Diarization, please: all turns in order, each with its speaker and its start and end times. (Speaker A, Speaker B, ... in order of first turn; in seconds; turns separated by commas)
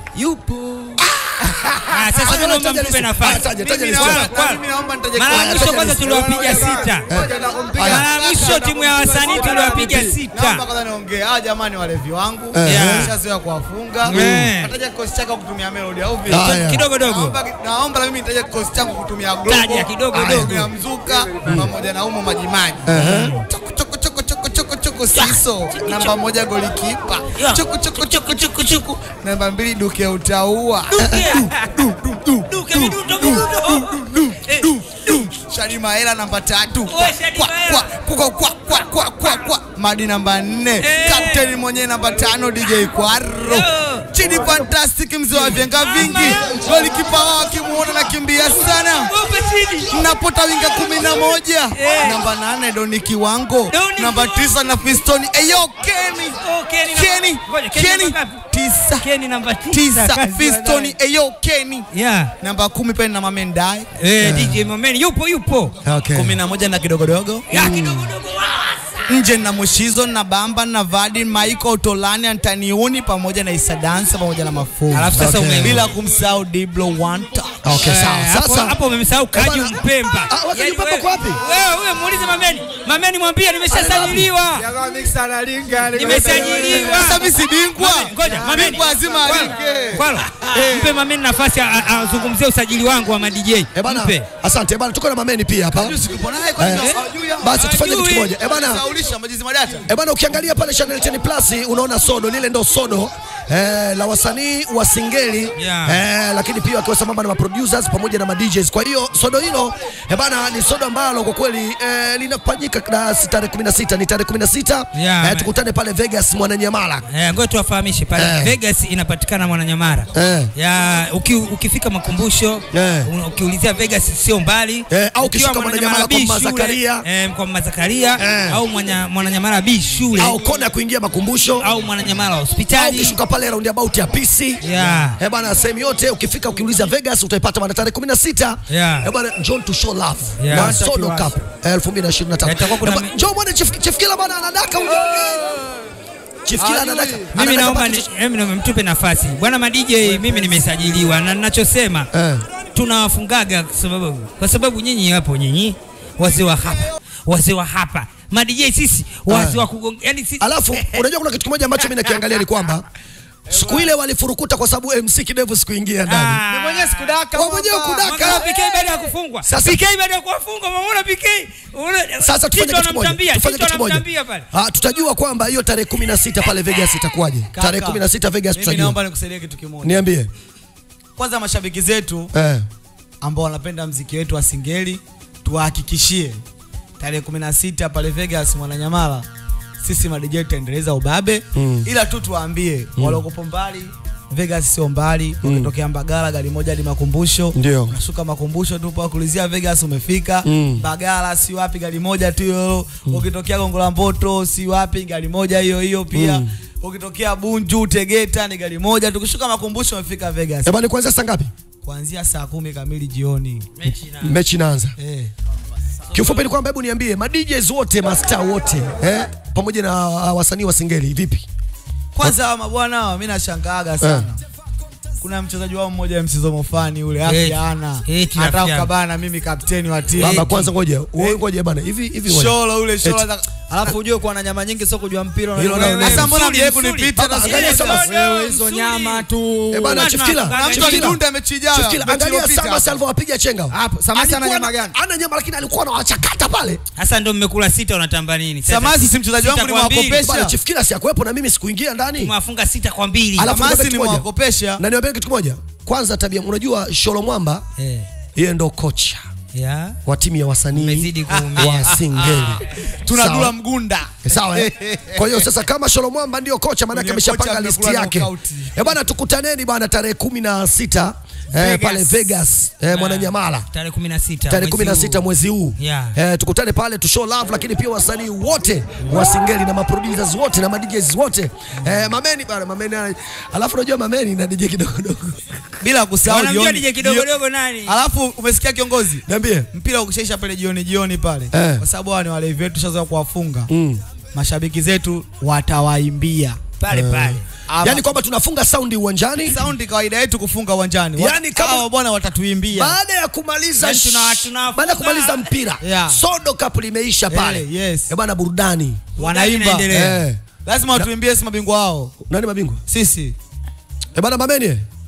Speaker A: 0.1-2.2, Speaker B: 1.1-1.6, Speaker C: 1.9-7.1, Speaker B: 2.2-4.3, Speaker D: 3.5-22.9, Speaker B: 5.3-5.9, Speaker A: 5.9-10.1, Speaker B: 7.2-8.1, Speaker C: 7.8-10.7, Speaker B: 12.5-13.1, Speaker C: 12.6-13.1, Speaker C: 14.0-14.7, Speaker B: 14.1-14.5, Speaker B: 16.3-16.9, Speaker C: 16.3-17.4, Speaker C: 19.4-20.7, Speaker B: 22.9-23.3, Speaker C: 22.9-23.4, Speaker D: 23.5-49.1, Speaker C: 25.1-26.1, Speaker C: 27.3-28.9, Speaker C: 30.9-31.9, Speaker C: 32.5-35.2, Speaker C: 36.9-38.0, Speaker C: 38.7-39.4, Speaker C: 40.8-41.5, Speaker C: 43.4-44.1, Speaker C: 45.7-46.6, Speaker C: 48.5-51.2, Speaker D: 49.9-59.1, Speaker C: 51.7-52.3, Speaker C: 53.7-54.6, Speaker C: 56.3-58.4, Speaker C: 59.0-61.0, Speaker D: 59.7-61.9, Speaker C: 61.9-62.3, Speaker D: 62.4-63.9, Speaker C: 63.9-65.8, Speaker B: 64.2-64.7, Speaker B: 65.8-66.4, Speaker D: 66.1-67.5, Speaker C: 67.5-69.1, Speaker B: 67.5-68.1, Speaker D: 69.1-77.5, Speaker C: 74.9-75.9, Speaker B: 75.2-75.8, Speaker B: 77.6-78.8, Speaker C: 77.7-84.6, Speaker B: 79.3-81.4, Speaker B: 83.7-84.3, Speaker A: 84.5-87.3, Speaker C: 85.9-94.2, Speaker D: 86.1-90.9, Speaker A: 88.2-90.0, Speaker B: 93.7-96.0, Speaker D: 95.7-99.9, Speaker B: 96.6-98.8, Speaker C: 96.7-98.3, Speaker B: 99.9-117.0, Speaker C: 105.6-106.0, Speaker C: 114.9-115.5, Speaker C: 117.1-130.4, Speaker B: 118.1-118.6, Speaker B: 120.1-120.5, Speaker B: 122.7-123.1, Speaker B: 124.9-127.0, Speaker B: 128.2-128.6, Speaker B: 130.2-131.7, Speaker C: 131.6-133.2, Speaker B: 132.7-134.6, Speaker C: 134.6-135.2, Speaker A: 134.8-135.2, Speaker B: 135.2-145.4, Speaker C: 138.7-139.1, Speaker C: 140.4-140.8, Speaker A: 140.5-141.4, Speaker C: 142.4-143.2, Speaker A: 144.9-145.8, Speaker B: 146.4-148.1, Speaker A: 146.6-147.3, Speaker C: 147.3-152.1, Speaker A: 150.0-151.1, Speaker B: 152.1-152.4, Speaker C: 152.7-161.1, Speaker B: 159.3-159.6, Speaker B: 160.4-162.8, Speaker C: 161.9-162.3, Speaker B: 163.5-166.4, Speaker A: 163.5-163.9, Speaker C: 166.1-167.1, Speaker A: 166.5-169.1, Speaker B: 167.3-168.5, Speaker C: 168.0-174.4, Speaker B: 169.4-169.8, Speaker B: 172.2-179.0, Speaker D: 177.5-180.0, Speaker B: 179.8-180.3, Speaker D: 181.2-182.3, Speaker B: 182.3-182.6, Speaker D: 183.2-186.4, Speaker D: 187.0-189.3, Speaker D: 189.8-210.7, Speaker B: 191.5-191.9, Speaker B: 195.4-195.7, Speaker B: 197.5-197.9, Speaker B: 200.4-200.8, Speaker B: 206.1-206.5, Speaker B: 210.6-211.5, Speaker D: 211.8-213.7, Speaker C: 213.8-214.4, Speaker B: 214.2-214.9, Speaker D: 215.0-215.3, Speaker B: 216.1-221.4, Speaker C: 216.2-216.4, Speaker D: 222.1-224.4, Speaker D: 225.2-231.4, Speaker C: 227.2-228.9, Speaker C: 230.2-230.6, Speaker B: 230.2-233.2, Speaker D: 232.3-233.5, Speaker A: 233.7-236.3, Speaker B: 235.5-236.3, Speaker D: 235.7-238.1, Speaker C: 235.9-239.3, Speaker B: 237.1-238.1, Speaker A: 237.9-240.1, Speaker B: 239.7-241.2, Speaker C: 239.8-241.2, Speaker D: 240.5-242.9, Speaker B: 241.7-246.8, Speaker A: 243.7-244.9, Speaker C: 246.9-250.2, Speaker D: 248.6-250.6, Speaker B: 250.2-252.3, Speaker C: 252.2-253.5, Speaker B: 253.3-254.2, Speaker D: 253.4-254.8, Speaker B: 254.8-257.6, Speaker C: 257.8-258.1, Speaker B: 258.3-259.2, Speaker C: 259.5-260.0, Speaker B: 260.0-263.5, Speaker C: 260.7-262.0, Speaker D: 261.3-265.5, Speaker B: 264.2-273.7, Speaker D: 266.9-269.0, Speaker C: 272.9-276.1, Speaker B: 274.5-285.6, Speaker C: 281.8-282.1, Speaker D: 285.8-287.3, Speaker C: 286.2-288.0, Speaker D: 287.8-293.7, Speaker B: 289.2-289.7, Speaker B: 291.5-291.8, Speaker B: 293.7-294.0, Speaker D: 294.3-296.6, Speaker C: 296.8-297.5, Speaker B: 296.9-299.6, Speaker D: 297.7-298.1, Speaker D: 299.4-303.0, Speaker B: 301.2-301.9, Speaker B: 302.7-309.1, Speaker C: 303.8-305.6, Speaker D: 305.8-306.2, Speaker D: 307.3-308.1, Speaker D: 309.1-310.1, Speaker C: 309.1-310.2, Speaker B: 309.9-310.4, Speaker D: 310.6-312.1, Speaker B: 312.2-312.8, Speaker D: 312.9-313.4, Speaker B: 314.1-314.8